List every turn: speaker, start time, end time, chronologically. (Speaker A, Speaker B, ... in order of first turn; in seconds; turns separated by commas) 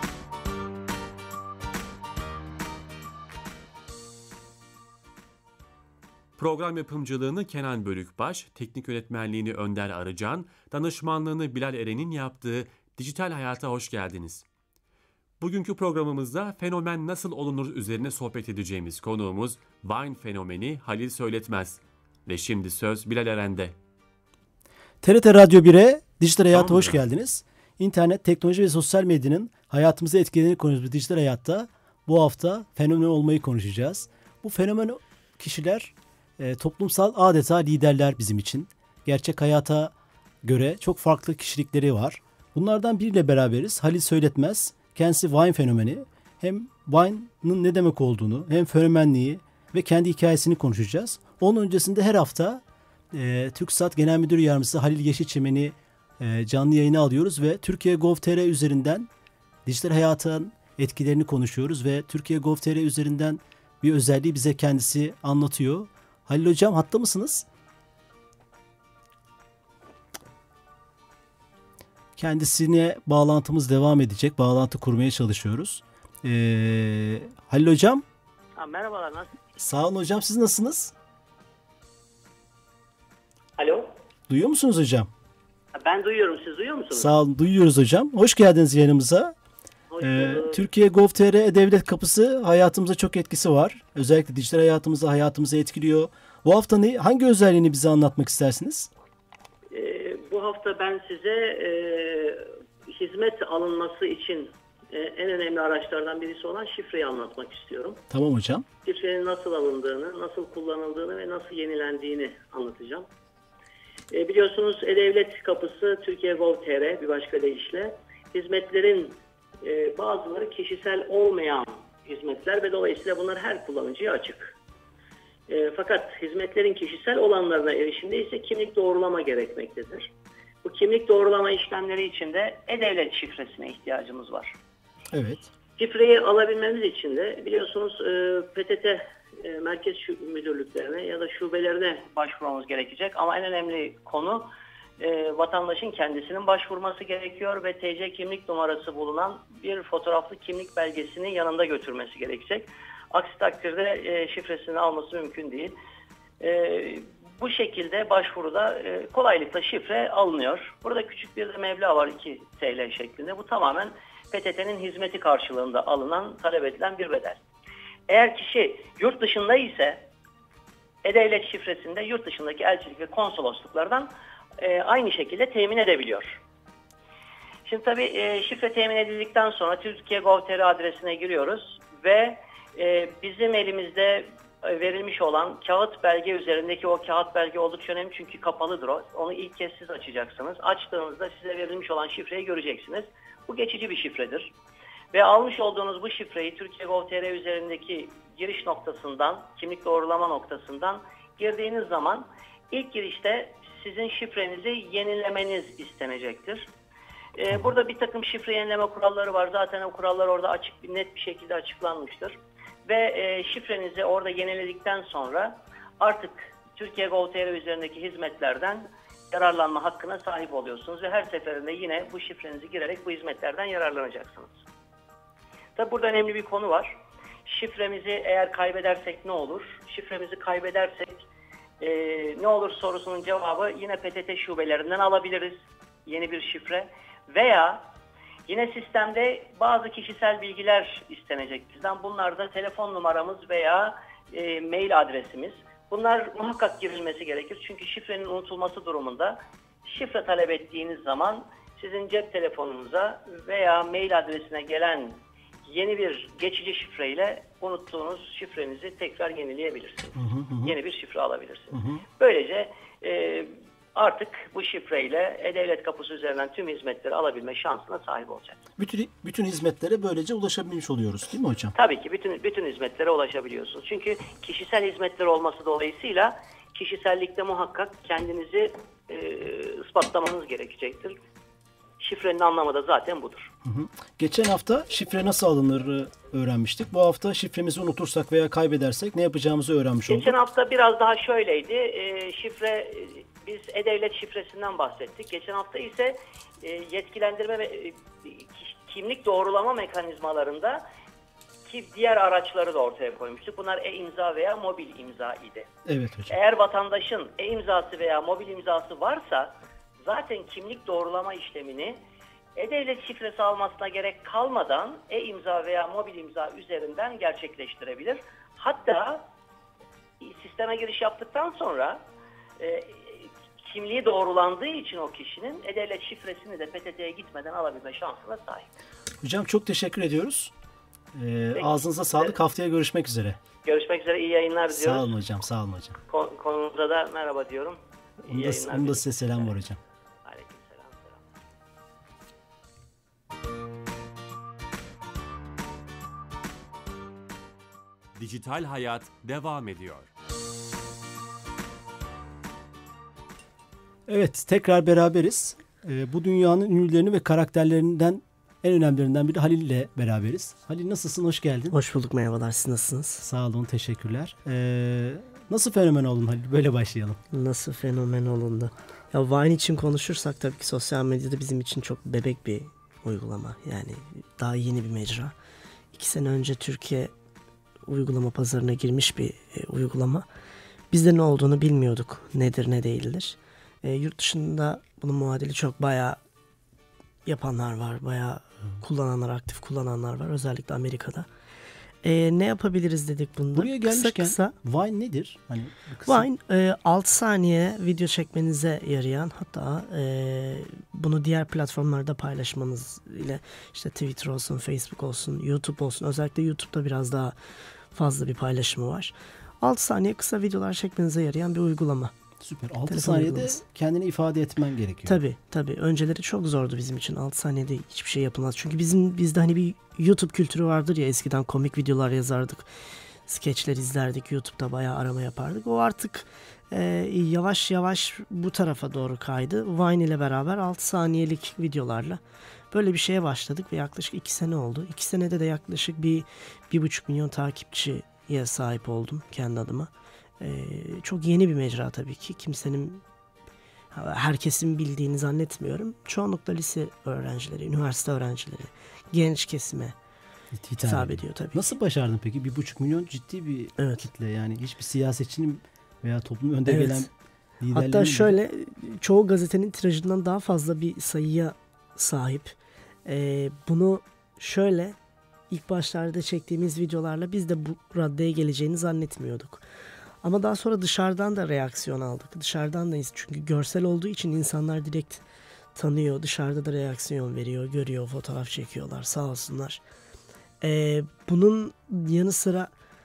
Speaker A: 6.4-14.4, Speaker A: 15.4-23.8, Speaker B: 25.0-59.1, Speaker A: 26.5-27.0, Speaker B: 59.7-67.5, Speaker B: 72.2-78.0, Speaker C: 78.6-79.3, Speaker B: 79.6-80.9, Speaker C: 83.6-83.9, Speaker B: 84.3-85.1, Speaker C: 85.7-87.1, Speaker B: 86.9-89.3, Speaker C: 89.9-90.7, Speaker B: 90.0-98.9, Speaker C: 99.7-108.0, Speaker B: 108.1-108.7, Speaker C: 108.8-113.1, Speaker C: 114.1-124.5, Speaker C: 125.5-130.1, Speaker C: 130.6-134.6, Speaker B: 135.1-135.5, Speaker C: 135.8-155.8, Speaker C: 156.4-167.4, Speaker C: 168.1-170.1, Speaker C: 171.0-176.4, Speaker C: 177.7-194.5, Speaker C: 195.1-206.7, Speaker C: 207.4-224.6, Speaker C: 225.8-226.9, Speaker C: 227.4-231.3, Speaker C: 231.8-237.8, Speaker C: 238.5-268.6, Speaker B: 260.2-260.8, Speaker B: 261.7-262.0, Speaker B: 268.8-271.8, Speaker C: 271.8-281.2, Speaker C: 282.0-283.5, Speaker B: 283.6-290.4, Speaker C: 290.1-300.8, Speaker C: 301.7-305.7, Speaker B: 305.9-306.4, Speaker C: 306.3-309.5, Speaker C: 310.0-312.0, Speaker C: 312.6-319.2, Speaker C: 320.2-322.0, Speaker C: 322.6-328.7, Speaker B: 329.2-330.5, Speaker B: 331.1-333.4, Speaker C: 331.6-332.4, Speaker C: 333.6-335.1, Speaker B: 334.7-336.0, Speaker C: 336.1-339.5, Speaker B: 338.3-339.8, Speaker C: 340.2-341.2, Speaker A: 348.1-350.1, Speaker B: 354.1-361.8, Speaker D: 361.7-363.2, Speaker B: 363.2-367.2, Speaker D: 367.3-375.3, Speaker D: 375.9-377.1, Speaker D: 377.9-380.3, Speaker D: 380.9-386.2, Speaker D: 387.3-391.3, Speaker D: 392.0-394.6, Speaker B: 393.6-396.3, Speaker D: 396.1-407.4, Speaker D: 407.9-412.1, Speaker B: 412.4-415.2, Speaker D: 412.9-413.6, Speaker D: 415.1-422.7, Speaker D: 423.3-432.2, Speaker D: 432.7-443.0, Speaker D: 443.9-450.0, Speaker B: 450.5-458.4, Speaker D: 450.8-451.6, Speaker D: 453.8-454.1, Speaker D: 456.7-457.1, Speaker D: 457.7-465.0, Speaker D: 465.5-469.6, Speaker D: 470.2-475.2, Speaker D: 475.8-479.8, Speaker D: 480.6-482.7